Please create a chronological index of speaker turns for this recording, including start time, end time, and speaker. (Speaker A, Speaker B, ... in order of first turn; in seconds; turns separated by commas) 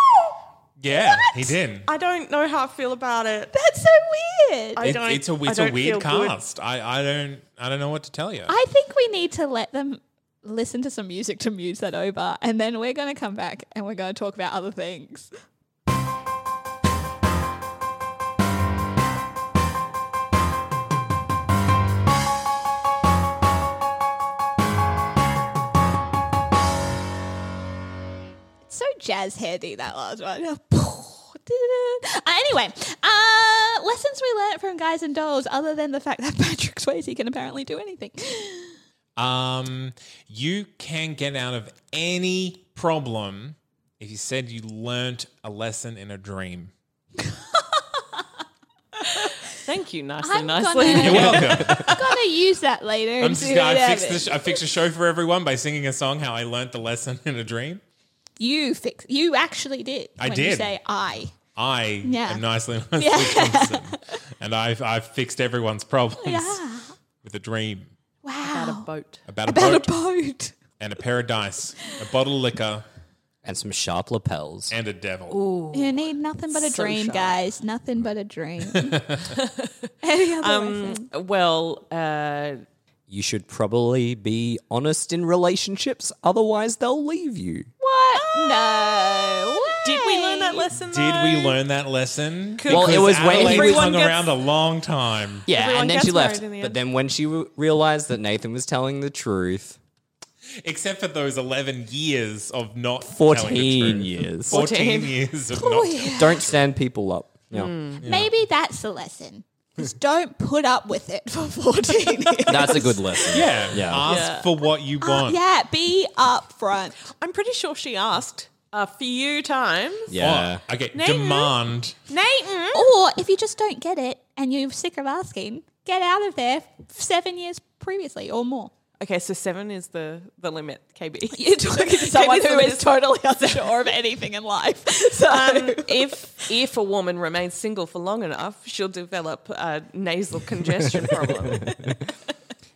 Speaker A: 0.8-1.9, Speaker B: 0.9-1.5, Speaker C: 1.9-3.5, Speaker B: 3.5-4.9, Speaker C: 4.8-6.4, Speaker A: 4.8-8.6, Speaker B: 8.5-15.3, Speaker B: 28.7-38.8, Speaker A: 39.2-46.7, Speaker B: 49.0-49.3, Speaker C: 49.5-52.1, Speaker B: 50.2-54.6, Speaker A: 50.9-52.0, Speaker A: 53.2-57.8, Speaker B: 58.4-61.3, Speaker A: 60.2-60.7, Speaker A: 61.5-66.6, Speaker B: 62.0-62.4, Speaker B: 63.0-64.2, Speaker B: 66.2-66.9, Speaker A: 67.2-67.9, Speaker B: 68.2-68.9, Speaker C: 68.4-69.2, Speaker A: 69.3-69.9, Speaker B: 69.5-70.5, Speaker A: 70.8-72.8, Speaker D: 73.4-74.7, Speaker A: 74.7-75.4, Speaker C: 75.3-77.4, Speaker B: 75.7-79.1, Speaker A: 78.8-79.3, Speaker C: 79.3-79.7, Speaker B: 80.0-81.1, Speaker C: 80.4-82.6, Speaker D: 83.1-87.7, Speaker B: 87.8-90.6, Speaker C: 88.2-91.6, Speaker A: 90.8-95.5, Speaker C: 92.6-94.3, Speaker D: 92.7-94.0, Speaker D: 95.5-99.8, Speaker C: 95.5-96.8, Speaker A: 100.6-106.5, Speaker D: 103.1-104.6, Speaker C: 104.5-105.2, Speaker B: 105.5-106.5, Speaker D: 106.2-107.7, Speaker C: 107.5-108.0, Speaker A: 108.0-108.3, Speaker B: 108.0-113.3, Speaker D: 112.5-114.1, Speaker A: 113.3-115.4, Speaker C: 114.0-114.5, Speaker B: 115.0-117.0, Speaker C: 117.1-120.2, Speaker D: 120.1-120.6, Speaker A: 120.2-122.0, Speaker C: 120.9-121.5, Speaker C: 122.1-122.9, Speaker B: 122.7-128.7, Speaker C: 129.0-133.7, Speaker B: 131.3-136.5, Speaker C: 135.2-141.8, Speaker D: 140.8-142.0